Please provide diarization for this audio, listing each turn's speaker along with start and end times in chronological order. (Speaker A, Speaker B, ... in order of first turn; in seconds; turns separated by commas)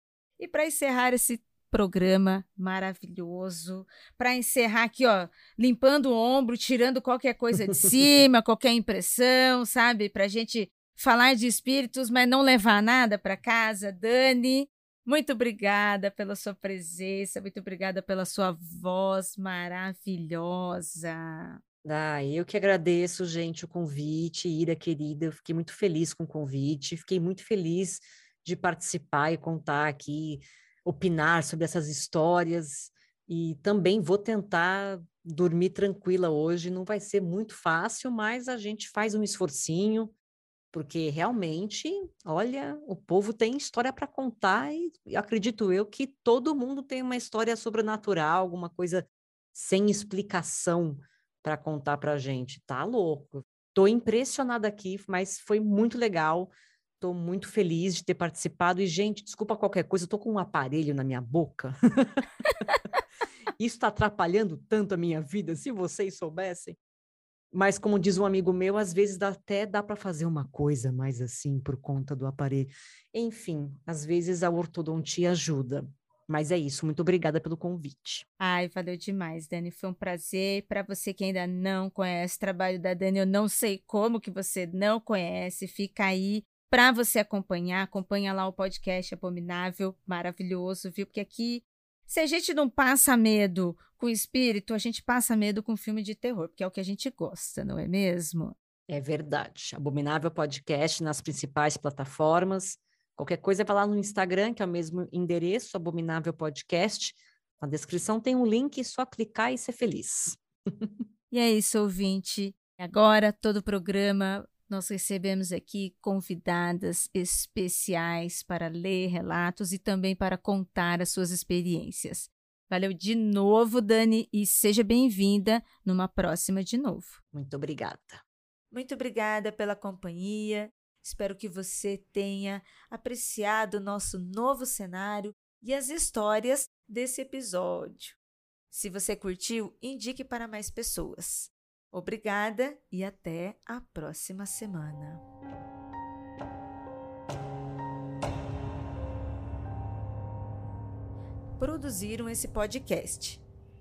Speaker A: 0.4-21.6, Speaker B: 21.8-40.1, Speaker B: 40.7-62.2, Speaker B: 63.6-66.8, Speaker B: 67.5-78.2, Speaker A: 78.4-98.5, Speaker B: 98.9-111.0, Speaker A: 111.3-127.2, Speaker B: 127.3-128.2, Speaker A: 128.7-138.2, Speaker A: 138.7-145.2, Speaker A: 151.6-153.4